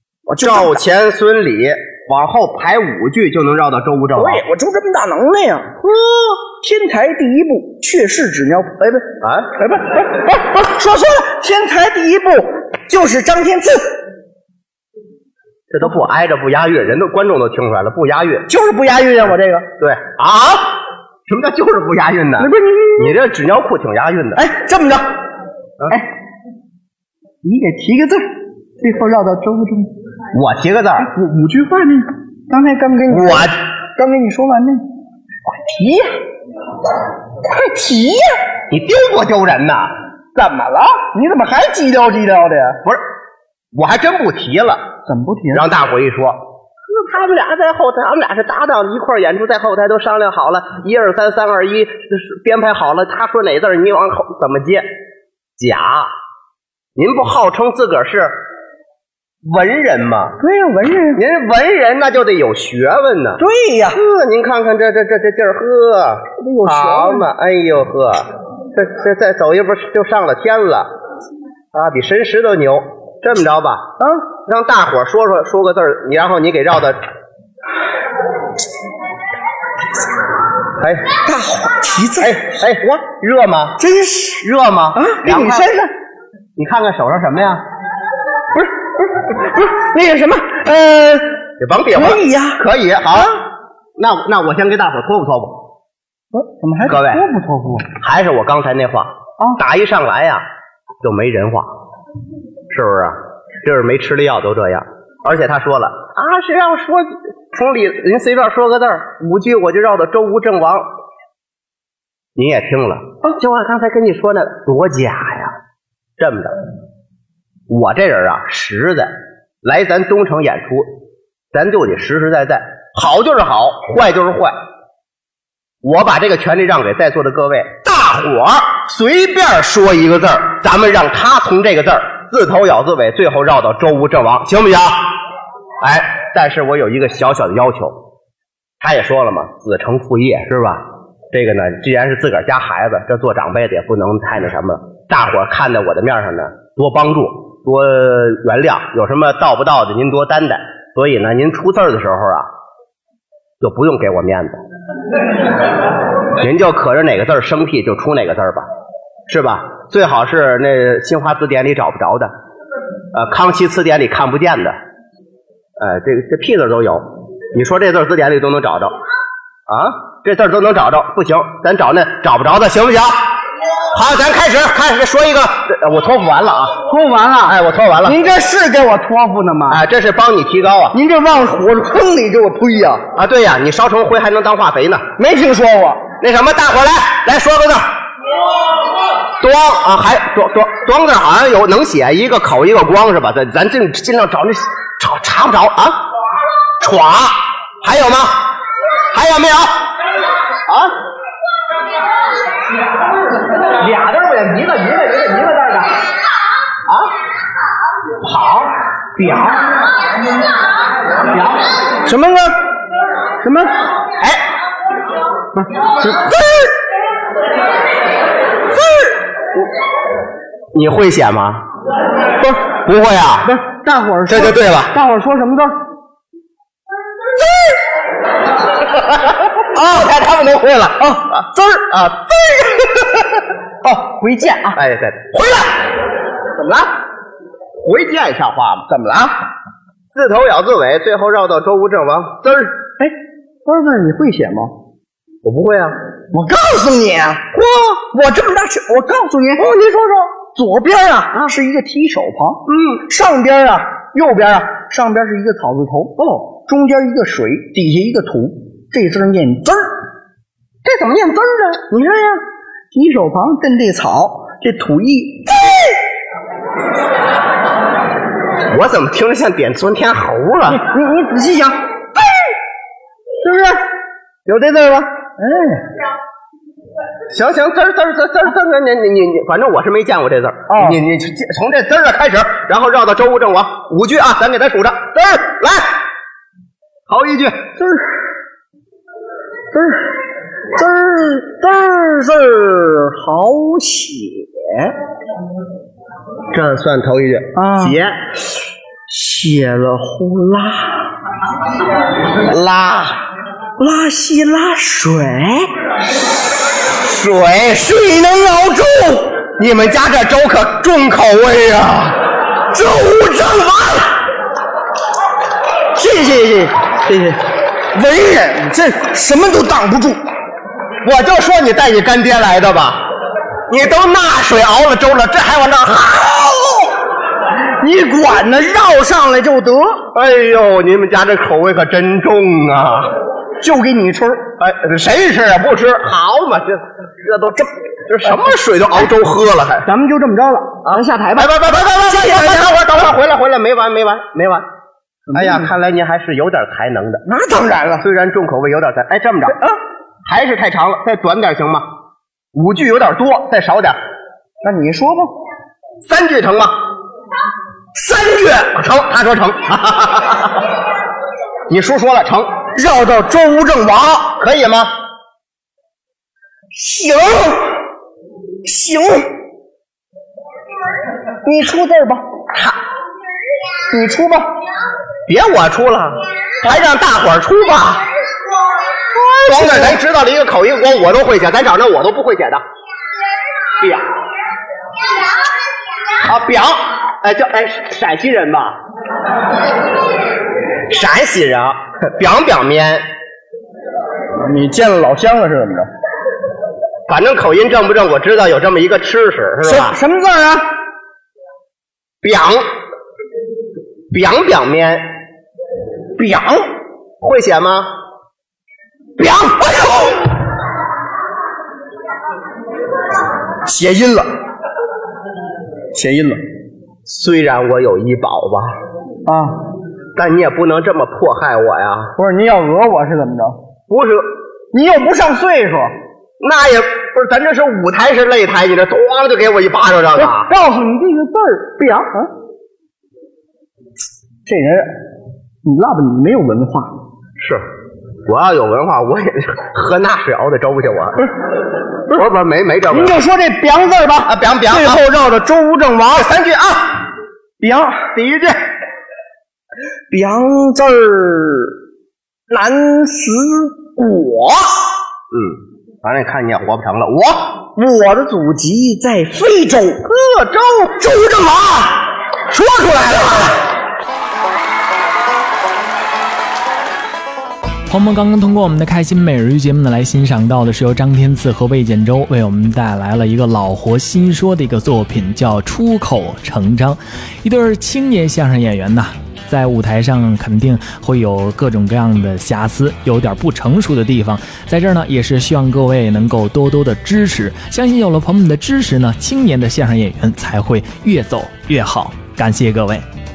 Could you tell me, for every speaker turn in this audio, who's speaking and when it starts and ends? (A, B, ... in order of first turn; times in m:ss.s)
0:00.3-0:00.8 A
0:00.4-0:04.4 B
0:04.1-0:05.8 A
0:05.8-0:06.2 B
0:06.4-0:13.9 A
0:09.2-0:09.5 B
0:15.7-0:18.4 B
0:18.5-0:19.7 A
0:19.8-0:24.4 B
0:22.4-0:23.1 A
0:24.4-0:25.2 A
0:27.4-0:29.9 A
0:30.3-0:31.1 B
0:31.0-0:34.8 A
0:33.1-0:33.6 B
0:35.5-0:36.2 A
0:37.4-0:38.4 A
0:38.7-0:39.9 B
0:40.3-0:42.8 A
0:43.7-0:44.9 B
0:45.0-0:45.7 A
0:45.5-0:54.9 B
0:55.6-0:56.1 B
0:57.0-0:58.4 B
0:59.4-1:00.4 B
1:00.4-1:01.2 A
1:01.1-1:03.4 B
1:03.4-1:04.0 A
1:03.9-1:10.9 B
1:06.4-1:07.3 A
1:11.7-1:13.9 B
1:14.0-1:14.2 A
1:14.4-1:17.0 B
1:20.8-1:21.1 B
1:21.2-1:23.0 A
1:22.2-1:23.8 B
1:23.8-1:24.4 A
1:24.4-1:25.7 B
1:24.9-1:25.9 A
1:26.6-1:27.6 B
1:28.5-1:31.4 A
1:31.6-1:33.3 B
1:31.9-1:32.6 A
1:34.0-1:35.6 B
1:36.3-1:37.9 A
1:36.9-1:37.2 B
1:38.0-1:40.4 B
1:41.0-1:41.7 B
1:42.7-1:50.9 B
1:52.4-1:55.6 B
1:56.2-1:56.6 B
1:57.7-2:00.9 B
2:01.5-2:04.5 B
2:05.8-2:15.1 B
2:15.8-2:18.0 B
2:18.8-2:32.5 B
2:33.6-2:34.6 B
2:36.4-2:38.7 B
2:39.3-2:42.3 B
2:43.1-2:44.8 B
2:45.8-2:49.0 B
2:49.7-2:53.3 B
2:53.9-2:56.8 B
2:56.8-2:59.8 A
2:57.4-2:58.2 B
2:59.7-3:01.0 B
3:00.9-3:03.0 A
3:03.1-3:05.0 B
3:05.2-3:06.0 A
3:06.2-3:07.9 B
3:09.4-3:16.0 B
3:16.8-3:18.5 B
3:19.1-3:19.9 B
3:20.6-3:20.9 B
3:23.8-3:24.9 B
3:24.0-3:25.9 A
3:26.9-3:27.1 B
3:28.2-3:28.8 B
3:29.2-3:29.7 A
3:32.0-3:32.6 A
3:33.4-3:33.7 A
3:36.0-3:36.8 A
3:38.7-3:39.2 A
3:40.7-3:41.6 B
3:42.7-3:43.5 B
3:43.4-3:45.8 A
3:44.3-3:44.9 B
3:48.9-3:52.3 B
3:51.0-3:52.1 A
3:53.8-3:54.8 A
3:54.7-3:55.9 B
3:56.5-3:56.9 A
3:57.8-3:58.8 B
3:58.9-3:59.4 A
4:00.1-4:02.8 B
4:03.6-4:04.7 A
4:05.4-4:06.0 B
4:06.3-4:07.5 A
4:07.5-4:08.0 B
4:08.1-4:19.9 A
4:09.7-4:10.3 B
4:12.7-4:13.0 B
4:20.8-4:21.8 B
4:21.9-4:25.9 A
4:28.7-4:30.8 B
4:30.7-4:31.9 A
4:33.4-4:33.8 A
4:34.4-4:35.8 A
4:37.3-4:46.0 B
4:40.7-4:41.0 A
4:47.1-4:47.6 B
4:47.8-4:48.1 A
4:49.7-4:50.1 A
4:50.7-4:54.9 A
4:56.5-4:58.3 B
4:57.5-4:58.0 A
4:59.1-5:01.0 A
5:02.4-5:03.2 B
5:03.8-5:05.7 A
5:07.0-5:07.8 B
5:07.7-5:09.4 A
5:09.6-5:12.2 B
5:12.7-5:14.2 A
5:15.9-5:17.4 A
5:17.9-5:20.2 A
5:21.0-5:23.1 B
5:23.7-5:26.5 B
5:26.4-5:26.8 A
5:27.8-5:30.1 A
5:30.1-5:33.1 B
5:33.6-5:34.5 A
5:34.6-5:39.9 B
5:39.8-5:42.8 A
5:40.8-5:44.7 B
5:45.3-5:45.7 A
5:45.3-5:47.2 B
5:47.2-5:48.0 A
5:48.0-5:49.6 B
5:50.2-5:51.9 B
5:52.5-5:54.0 B
5:54.6-5:55.3 A
5:56.0-5:56.8 B
5:57.9-5:58.7 A
5:58.7-6:00.6 B
6:01.7-6:02.5 B
6:02.7-6:04.4 A
6:04.4-6:04.9 B
6:06.7-6:07.8 A
6:08.6-6:09.3 A
6:11.4-6:12.2 A
6:13.9-6:14.5 A
6:15.3-6:18.1 B
6:19.1-6:20.0 A
6:19.4-6:22.6 B
6:23.8-6:24.1 B
6:26.2-6:28.8 B
6:30.9-6:33.0 B
6:34.4-6:35.9 A
6:37.1-6:40.0 B
6:39.6-6:40.6 A
6:42.2-6:42.7 B
6:44.1-6:45.1 B
6:46.2-6:46.6 A
6:47.2-6:47.9 B
6:49.2-6:50.2 A
6:53.6-6:54.3 A
6:55.9-6:56.4 A
6:57.0-6:58.7 B
6:59.2-6:59.5 A
7:00.2-7:02.1 B
7:02.2-7:03.6 A
7:03.9-7:04.3 B
7:04.7-7:05.9 A
7:06.4-7:10.5 B
7:10.2-7:12.3 A
7:14.4-7:14.9 A
7:15.6-7:17.0 A
7:17.4-7:17.6 B
7:18.2-7:21.3 B
7:22.1-7:23.2 B
7:22.9-7:26.1 A
7:24.2-7:25.0 B
7:26.0-7:27.1 B
7:27.6-7:28.1 A
7:28.1-7:28.6 B
7:30.1-7:31.8 A
7:32.5-7:34.8 A
7:35.3-7:37.6 B
7:37.8-7:40.1 A
7:40.1-7:41.9 B
7:42.5-7:43.1 B
7:42.8-7:43.5 A
7:47.9-8:13.0 C